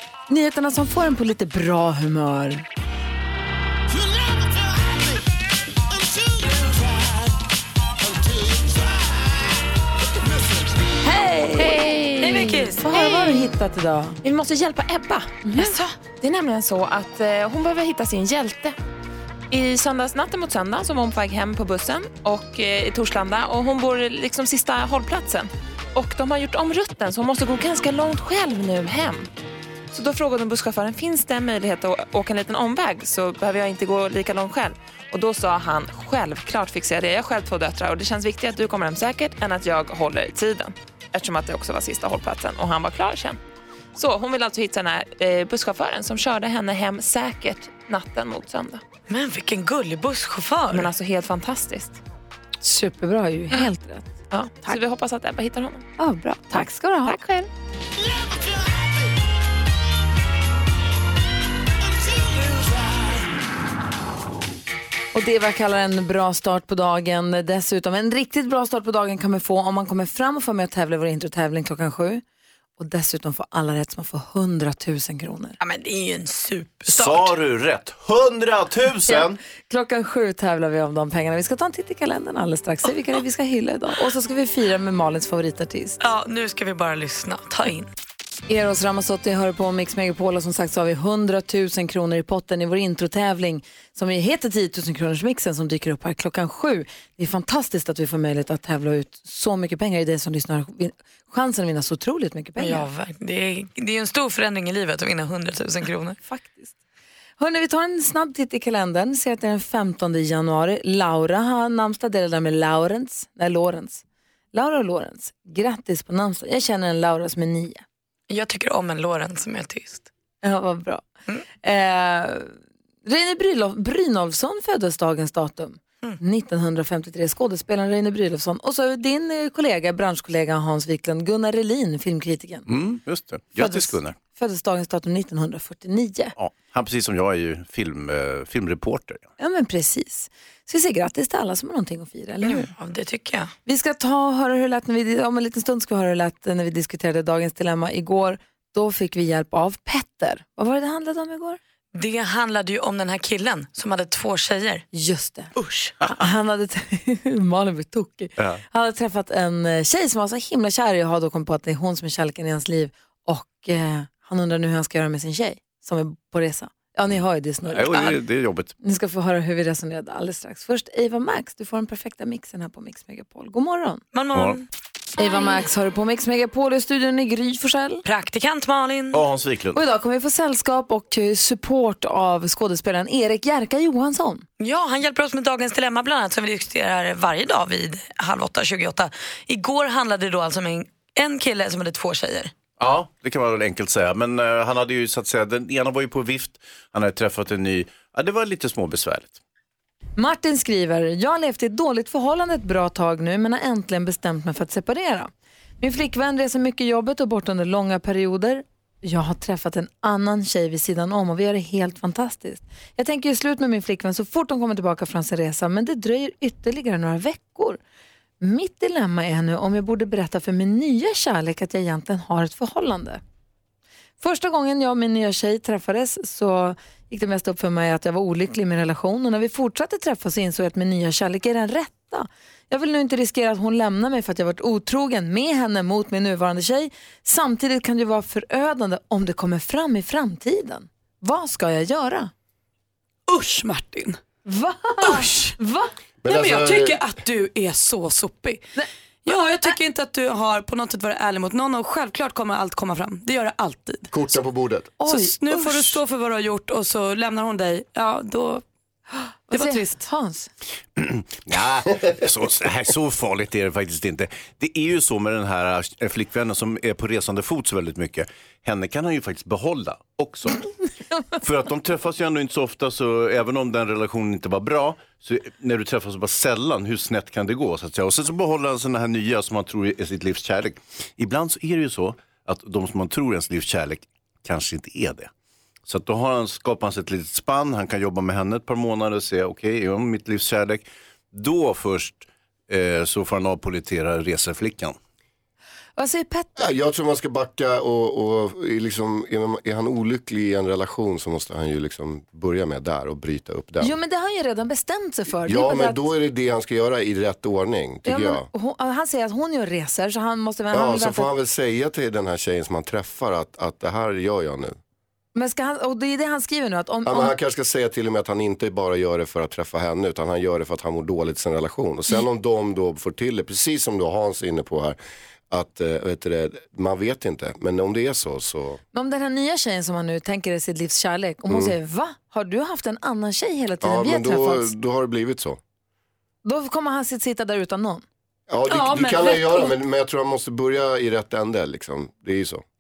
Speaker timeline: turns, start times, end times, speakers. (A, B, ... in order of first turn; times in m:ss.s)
0:00.3-0:02.6 A
0:11.0-0:14.2 A
0:11.6-0:12.2 B
0:12.2-0:12.9 C
0:12.9-0:13.4 B
0:14.2-0:15.5 B
0:15.4-0:15.7 A
0:15.6-0:16.0 C
0:16.0-0:18.8 B
0:19.5-0:29.3 B
0:29.9-0:43.4 B
0:44.0-0:48.8 B
0:49.1-0:50.9 C
0:50.7-0:52.0 B
0:52.6-0:54.8 A
0:54.3-0:55.8 B
0:56.0-0:57.5 A
1:05.1-1:12.2 A
1:12.8-1:15.6 A
1:15.6-1:17.3 C
1:16.9-1:19.4 D
1:19.1-1:26.0 A
1:26.0-1:27.9 C
1:28.5-1:42.9 A
1:42.6-1:46.2 C
1:46.3-1:46.8 A
1:47.4-1:54.0 A
1:54.5-1:57.8 A
1:58.3-2:00.1 C
2:00.4-2:01.0 A
2:01.6-2:02.5 A
2:03.0-2:12.7 A
2:12.7-2:14.2 D
2:13.6-2:16.4 A
2:16.4-2:19.3 D
2:19.4-2:22.7 A
2:22.4-2:23.5 C
2:23.7-2:31.6 A
2:31.9-2:34.8 C
2:34.9-2:48.1 A
2:35.6-2:35.9 C
2:38.4-2:38.6 D
2:47.7-2:48.7 D
2:48.8-2:54.0 A
2:54.1-2:54.7 C
2:55.2-2:58.0 A
2:58.0-2:59.2 C
2:59.1-2:59.8 D
2:59.8-3:04.5 A
3:04.6-3:12.5 C
3:12.8-3:19.4 D
3:20.2-3:37.8 A
3:38.4-3:43.2 A
3:44.2-4:02.3 A
4:03.3-4:04.2 E
4:04.5-4:05.9 A
4:05.0-4:05.6 E
4:06.2-4:07.0 F
4:06.3-4:08.6 E
4:08.8-4:09.7 A
4:09.3-4:14.1 E
4:14.1-4:15.0 F
4:15.0-4:16.0 A
4:15.1-4:18.6 E
4:19.5-4:20.5 A
4:19.5-4:20.0 E
4:21.0-4:30.6 D
4:31.4-4:45.3 D
4:45.9-4:55.0 D
4:56.0-4:56.6 A
4:56.6-5:03.9 F
5:03.8-5:06.1 A
5:05.4-5:08.4 F
5:08.1-5:11.3 A
5:10.7-5:14.8 F
5:15.4-5:17.3 A
5:17.1-5:25.0 F
5:25.5-5:28.8 F
5:28.9-5:34.7 A
5:31.5-5:31.7 F
5:33.8-5:35.6 F
5:36.4-5:38.0 A
5:38.5-5:42.6 F
5:38.7-5:39.7 E